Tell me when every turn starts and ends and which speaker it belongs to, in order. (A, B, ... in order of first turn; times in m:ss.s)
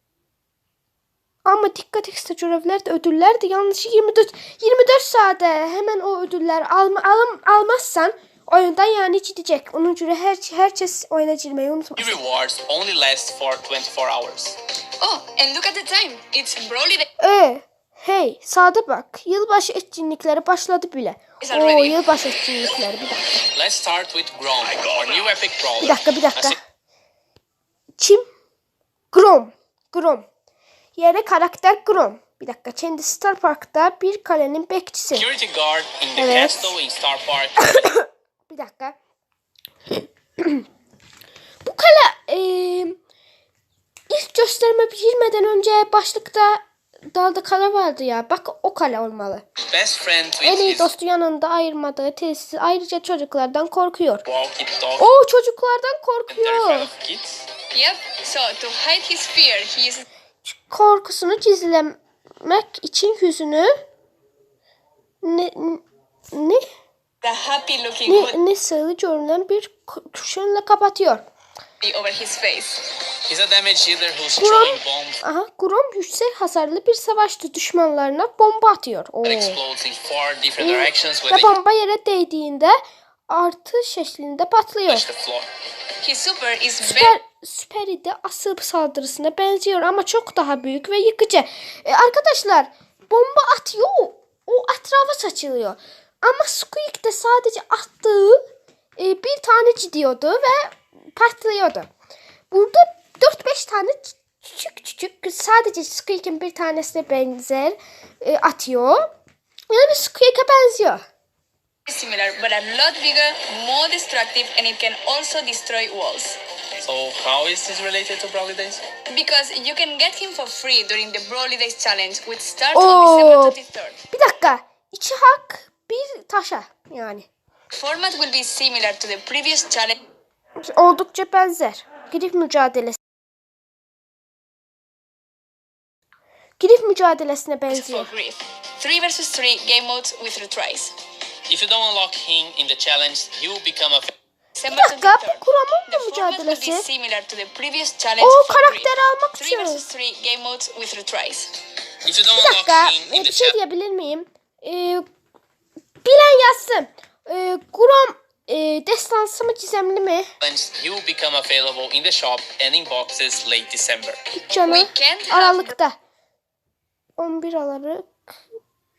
0:01.4-0:12.2 A
0:12.0-0:14.6 B
0:15.0-0:17.1 C
0:17.2-0:23.4 A
0:21.4-0:22.0 C
0:23.5-0:26.6 B
0:25.8-0:26.6 A
0:28.0-0:28.2 A
0:29.1-0:30.3 A
0:31.0-0:35.3 A
0:35.1-0:37.9 B
0:36.2-0:36.8 A
0:37.6-0:39.0 A
0:39.9-0:40.6 A
0:41.6-0:43.0 A
0:44.1-0:49.4 A
0:49.6-0:50.9 B
0:50.4-0:54.2 A
0:54.2-0:55.1 B
0:55.0-0:56.9 A
0:56.3-0:57.4 B
0:57.7-1:00.1 C
1:00.4-1:03.7 A
1:05.2-1:06.6 A
1:07.2-1:08.4 C
1:08.0-1:11.2 A
1:11.8-1:12.8 C
1:13.3-1:15.2 B
1:14.4-1:19.6 A
1:19.2-1:21.5 B
1:20.6-1:22.8 A
1:23.3-1:25.0 A
1:24.9-1:25.5 B
1:26.0-1:27.2 C
1:26.8-1:38.4 A
1:39.0-1:41.9 A
1:42.5-1:49.1 A
1:49.7-1:51.0 A
1:51.8-1:56.4 C
1:56.8-1:58.8 B
1:59.1-2:04.0 C
2:02.7-2:03.6 A
2:04.1-2:07.3 A
2:07.7-2:10.0 C
2:10.6-2:13.0 A
2:16.6-2:18.1 A
2:17.7-2:20.9 C
2:21.5-2:24.1 B
2:24.6-2:31.6 C
2:24.7-2:26.8 A
2:28.2-2:29.8 A
2:32.0-2:33.6 B
2:32.3-2:35.0 A
2:36.0-2:40.3 A
2:40.4-2:44.2 B
2:44.3-2:46.0 A
2:44.6-2:45.7 C
2:47.2-2:48.3 A